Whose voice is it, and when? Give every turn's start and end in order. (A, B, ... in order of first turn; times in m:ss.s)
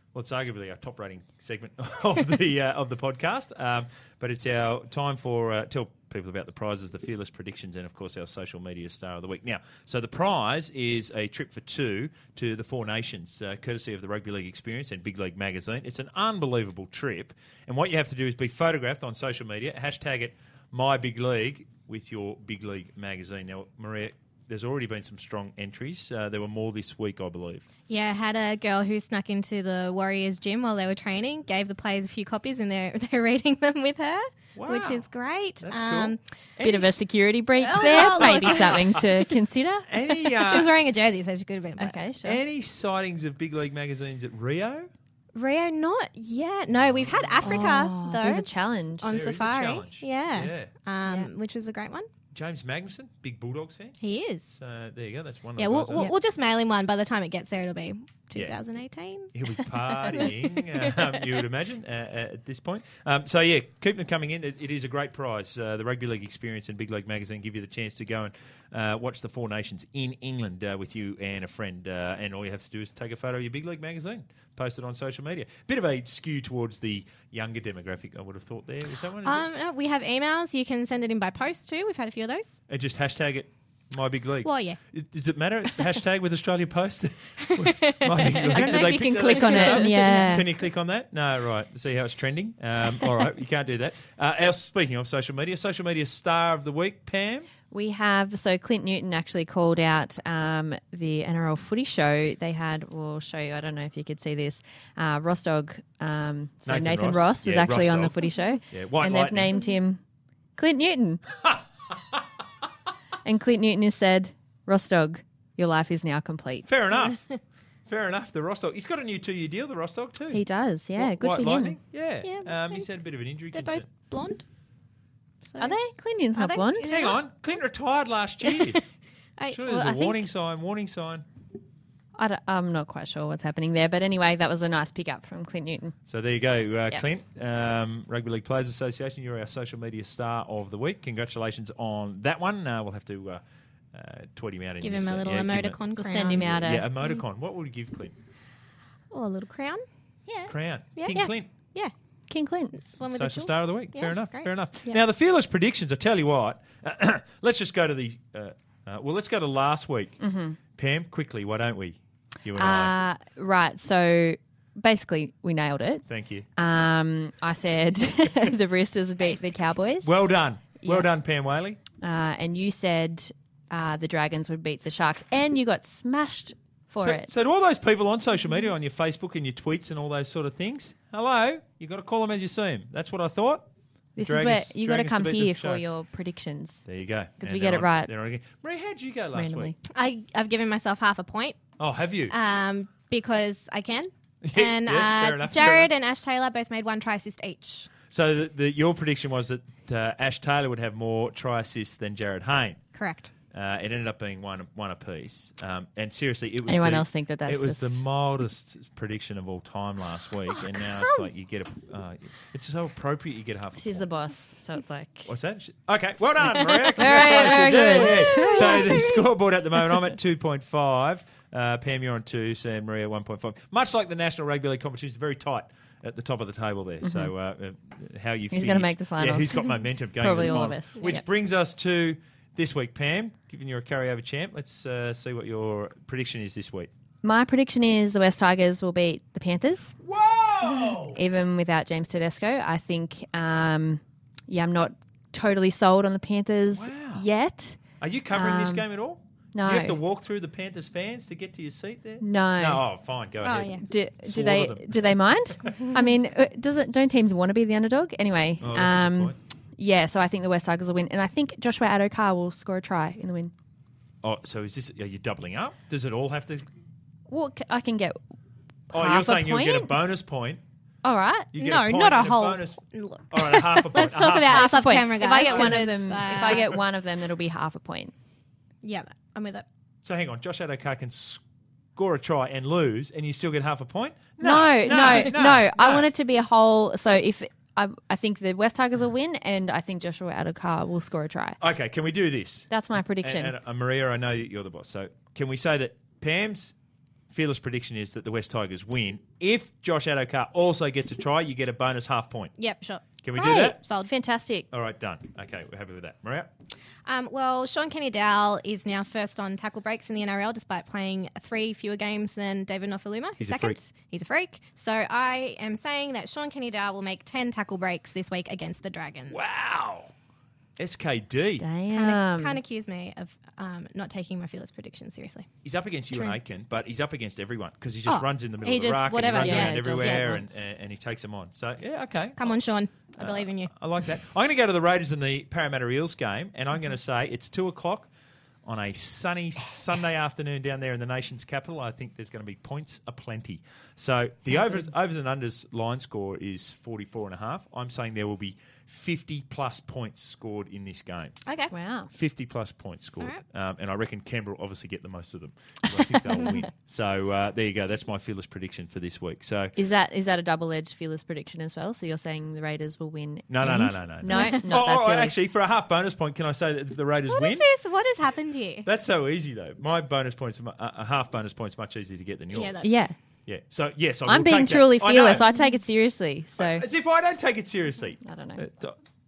0:00.1-0:27.6 A
0:27.9-0:36.2 B
0:34.6-0:35.0 A
0:35.6-0:37.0 A
0:36.6-0:39.9 C
0:37.6-0:39.0 B
0:37.8-0:38.8 A
0:39.9-0:40.7 A
0:40.1-0:42.0 B
0:41.8-0:42.4 C
0:42.2-0:44.9 A
0:45.3-0:48.5 B
0:46.8-0:47.7 A
0:47.4-0:49.1 C
0:49.0-0:52.1 B
0:49.0-0:50.7 A
0:52.3-0:56.1 A
0:54.0-0:54.4 B
0:55.6-1:01.1 B
0:59.3-1:19.4 A
1:19.2-1:22.6 B
1:22.7-1:37.5 A
1:24.4-1:24.8 B
1:27.4-1:30.4 B
1:28.5-1:30.5 C
1:37.7-1:50.0 C
1:46.6-1:48.2 A
1:48.7-1:49.6 A
1:50.6-1:51.4 C
1:53.2-1:56.7 C
1:56.6-1:57.3 A
1:57.9-2:00.4 A
2:00.3-2:01.8 C
2:01.0-2:03.9 A
2:02.2-2:02.9 B
2:03.5-2:04.4 B
2:05.4-2:05.8 B
2:05.6-2:06.9 C
2:06.3-2:07.2 B
2:06.8-2:08.8 A
2:09.5-2:11.2 A
2:09.7-2:10.2 C
2:12.2-2:16.0 C
2:16.0-2:23.4 A
2:23.9-2:28.1 A
2:24.8-2:27.2 B
2:26.0-2:26.9 C
2:29.1-2:31.9 B
2:30.4-2:31.5 A
2:32.3-2:32.8 C
2:32.7-2:34.5 B
2:33.0-2:40.2 A
2:40.2-2:40.6 C
2:40.7-2:42.9 A
2:42.6-2:46.0 C
2:46.1-2:46.5 A
2:46.6-2:51.1 C
2:50.0-2:51.8 A
2:52.0-2:57.3 C
2:57.0-3:03.6 A
3:04.2-3:06.8 C
3:04.2-3:05.9 A
3:06.8-3:09.7 A
3:07.4-3:08.1 C
3:09.3-3:09.8 C
3:09.9-3:11.6 B
3:11.8-3:12.3 A
3:12.3-3:17.9 B
3:14.4-3:15.9 A
3:18.1-3:22.8 A
3:22.9-3:23.3 B
3:23.5-3:34.1 A
3:26.6-3:28.0 C
3:30.5-3:31.3 B
3:33.7-3:35.3 C
3:35.2-3:56.9 A
3:36.6-3:38.9 C
3:37.6-3:39.2 B
3:47.0-3:47.3 C
3:48.5-3:51.2 C
3:57.2-3:59.9 C
4:00.0-4:01.2 A
4:00.6-4:07.8 C
4:06.7-4:07.2 A
4:08.0-4:15.9 A
4:08.3-4:08.8 C
4:09.5-4:10.0 C
4:12.2-4:12.8 C
4:13.4-4:13.8 B
4:13.8-4:23.5 C
4:18.6-4:19.4 A
4:24.2-4:26.6 A
4:27.3-4:28.2 C
4:28.9-4:29.9 C
4:28.9-4:30.6 A
4:31.0-4:31.5 C
4:31.5-4:36.8 A
4:31.6-4:36.7 B
4:34.5-4:38.1 C
4:38.8-4:39.6 B
4:40.0-4:41.4 A
4:42.0-4:46.0 A
4:44.4-4:51.6 C
4:51.6-4:56.7 A
4:52.7-4:53.5 C
4:57.3-5:02.5 A
5:02.6-5:04.1 B
5:03.2-5:03.8 A
5:03.3-5:04.7 C
5:04.7-5:06.5 A
5:07.0-5:19.4 B
5:13.4-5:13.8 A
5:19.3-5:20.1 A
5:20.8-5:21.6 A
5:21.6-5:22.6 C
5:21.9-5:25.5 B
5:25.6-5:32.5 A
5:28.0-5:30.4 B
5:29.3-5:30.6 C
5:32.4-5:33.7 B
5:33.2-5:38.1 A
5:38.6-5:51.4 A
5:51.4-5:51.7 B
5:51.7-5:52.1 C
5:52.1-5:59.8 A
5:59.8-6:05.4 C
6:03.5-6:07.7 A
6:07.3-6:08.9 B
6:08.8-6:12.9 A
6:12.5-6:13.0 B
6:12.8-6:13.2 C
6:13.5-6:15.5 A
6:14.2-6:16.8 C
6:16.6-6:19.0 A
6:18.2-6:18.6 C